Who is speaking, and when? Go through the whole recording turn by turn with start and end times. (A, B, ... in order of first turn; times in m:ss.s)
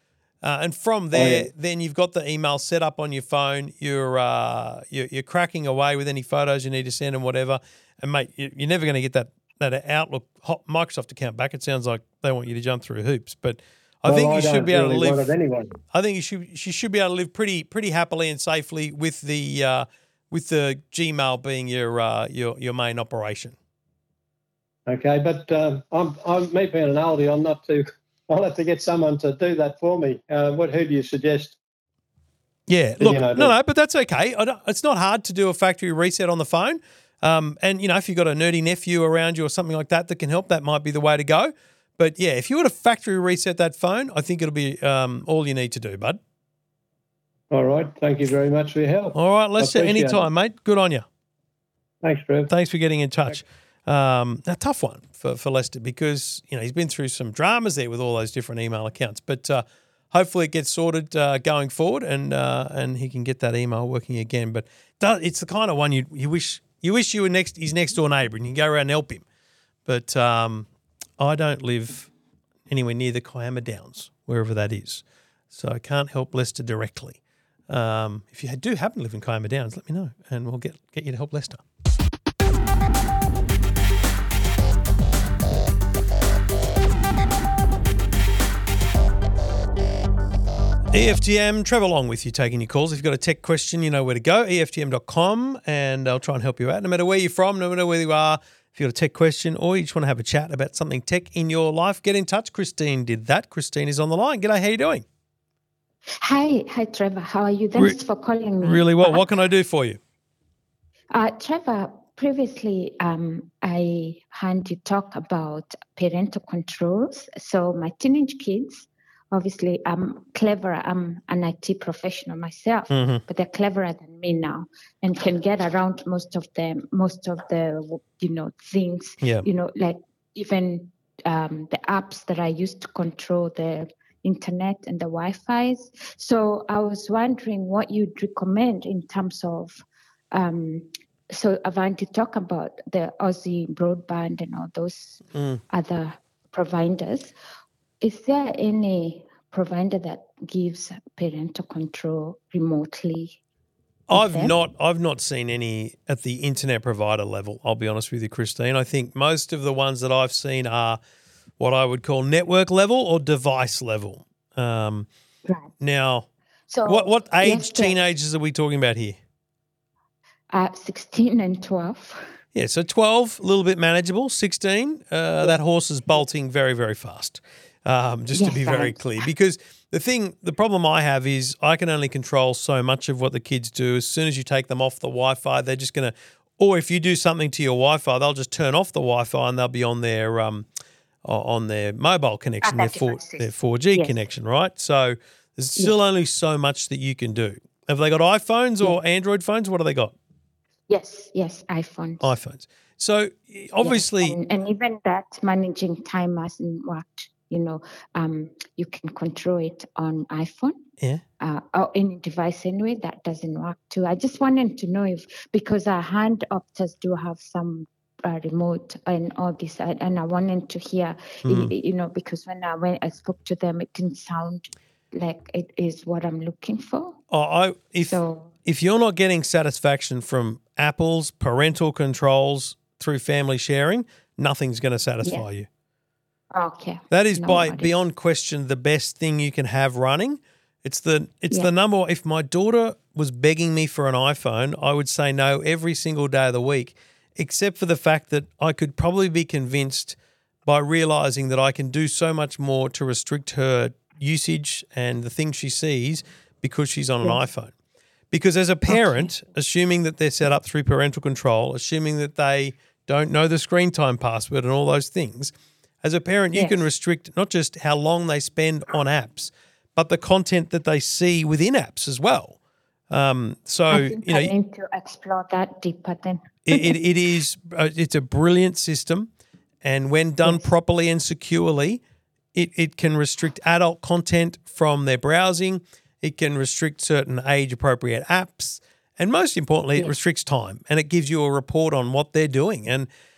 0:00.4-0:15.3 A
0:01.1-0:01.5 B
0:14.0-0:15.7 B
0:15.9-0:23.5 A
0:24.9-0:31.6 B
0:32.7-0:46.2 A
0:33.0-0:33.5 B
0:47.5-0:50.2 B
0:49.1-0:51.0 A
0:52.0-0:52.5 B
0:52.5-1:09.2 A
1:09.8-1:10.7 A
1:11.2-1:12.1 A
1:12.7-1:21.6 A
1:30.9-1:45.0 A
1:46.2-1:49.3 C
1:48.6-1:50.0 A
1:51.1-2:27.3 C
2:02.9-2:03.2 A
2:09.2-2:09.5 A
2:25.3-2:25.6 A
2:28.0-2:33.4 C
2:34.1-2:41.0 A
2:34.1-2:34.5 C
2:41.6-2:45.1 A
2:45.8-2:46.3 A
2:46.7-2:48.0 C
2:46.8-2:49.2 A
2:50.5-2:52.2 C
2:52.5-3:10.6 A
2:58.3-2:59.3 C
3:11.2-3:20.1 A
3:12.6-3:14.2 C
3:20.9-3:22.3 C
3:22.2-3:24.4 A
3:23.8-3:30.8 C
3:31.4-3:47.2 C
3:41.4-3:41.7 A
3:47.3-3:55.7 A
3:48.1-3:48.5 C
3:56.5-3:58.0 C
3:57.1-4:17.7 A
4:18.3-4:32.6 A
4:18.9-4:19.3 C
4:26.5-4:26.8 C
4:33.1-4:34.5 A
4:33.9-4:37.0 C
4:36.7-4:39.3 A
4:39.8-4:42.0 A
4:42.5-4:53.1 A